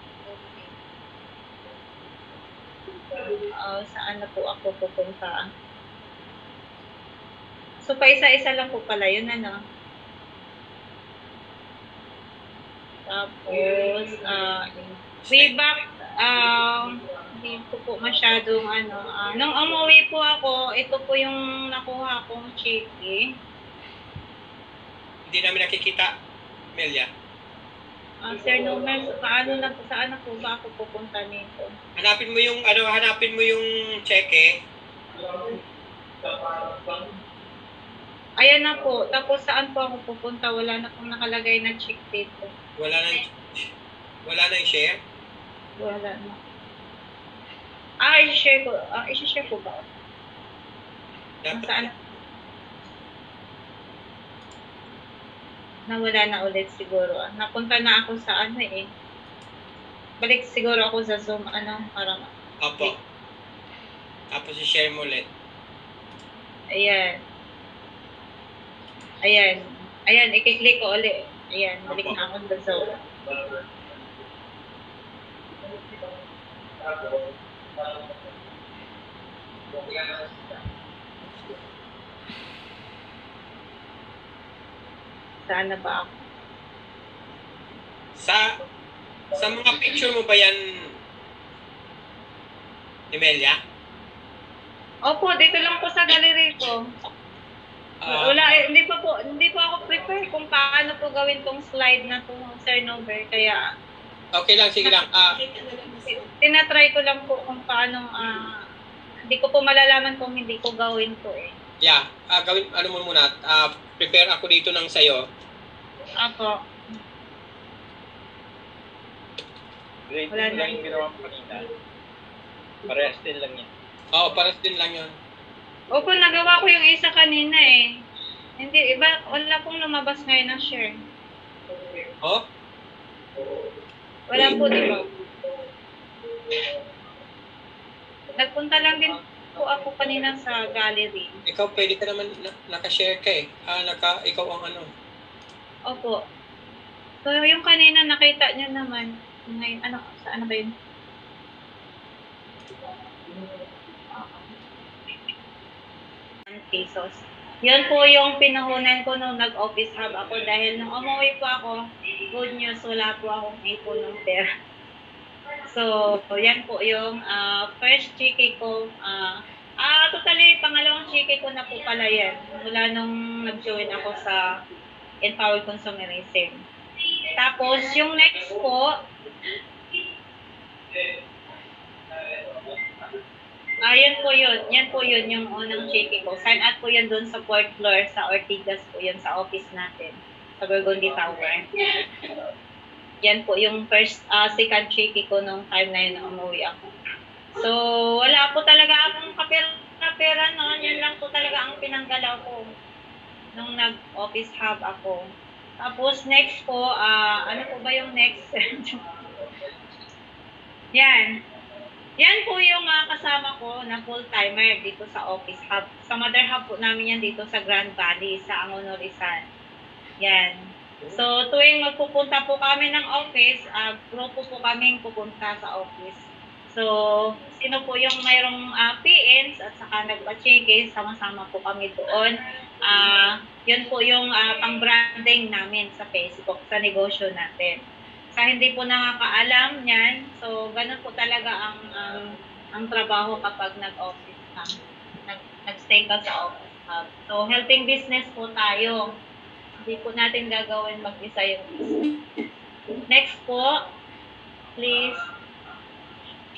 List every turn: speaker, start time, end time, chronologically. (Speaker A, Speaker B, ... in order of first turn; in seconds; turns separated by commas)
Speaker A: 0.2-0.7, Speaker A: 3.6-5.4, Speaker A: 7.8-9.6, Speaker A: 13.1-23.2, Speaker B: 15.2-15.5, Speaker B: 25.3-26.1, Speaker B: 26.7-27.1, Speaker A: 28.2-31.7, Speaker B: 31.9-34.5, Speaker A: 38.4-42.5, Speaker B: 42.8-43.7, Speaker B: 44.2-45.0, Speaker A: 45.8-46.4, Speaker A: 48.0-49.9, Speaker B: 51.4-51.9, Speaker A: 51.5-51.9, Speaker A: 55.9-58.9, Speaker A: 60.2-62.3, Speaker B: 62.6-63.0, Speaker B: 64.3-65.3, Speaker A: 66.8-67.2, Speaker A: 69.2-73.0, Speaker B: 71.9-72.2, Speaker A: 79.8-80.6, Speaker A: 85.5-86.2, Speaker B: 88.2-88.5, Speaker B: 89.3-90.6, Speaker B: 93.1-93.6, Speaker A: 95.1-96.8, Speaker B: 98.0-98.6, Speaker A: 98.1-103.6, Speaker B: 104.3-105.4, Speaker A: 106.0-108.5, Speaker A: 109.3-111.5, Speaker B: 111.8-115.2, Speaker A: 116.2-116.6, Speaker C: 120.1-121.6, Speaker A: 120.3-121.1, Speaker C: 122.9-123.7, Speaker B: 124.1-125.1, Speaker A: 125.9-127.9, Speaker A: 128.6-130.9, Speaker A: 134.3-135.1, Speaker B: 134.3-134.6, Speaker A: 138.4-141.3, Speaker B: 141.5-144.9, Speaker A: 145.9-146.2, Speaker A: 147.2-150.7, Speaker A: 154.1-154.5, Speaker A: 156.5-161.8, Speaker A: 162.3-164.4, Speaker A: 165.7-174.4, Speaker A: 175.2-176.6, Speaker A: 177.4-178.9, Speaker A: 183.8-191.7, Speaker A: 193.2-196.8, Speaker A: 197.6-202.7, Speaker A: 203.5-205.2, Speaker A: 205.8-209.0, Speaker A: 210.9-211.3, Speaker A: 212.2-219.4, Speaker A: 220.2-220.6, Speaker A: 221.1-232.3, Speaker A: 232.8-237.8, Speaker A: 238.3-244.7, Speaker A: 245.2-249.1, Speaker A: 249.8-252.2, Speaker A: 253.1-253.7, Speaker A: 254.8-255.2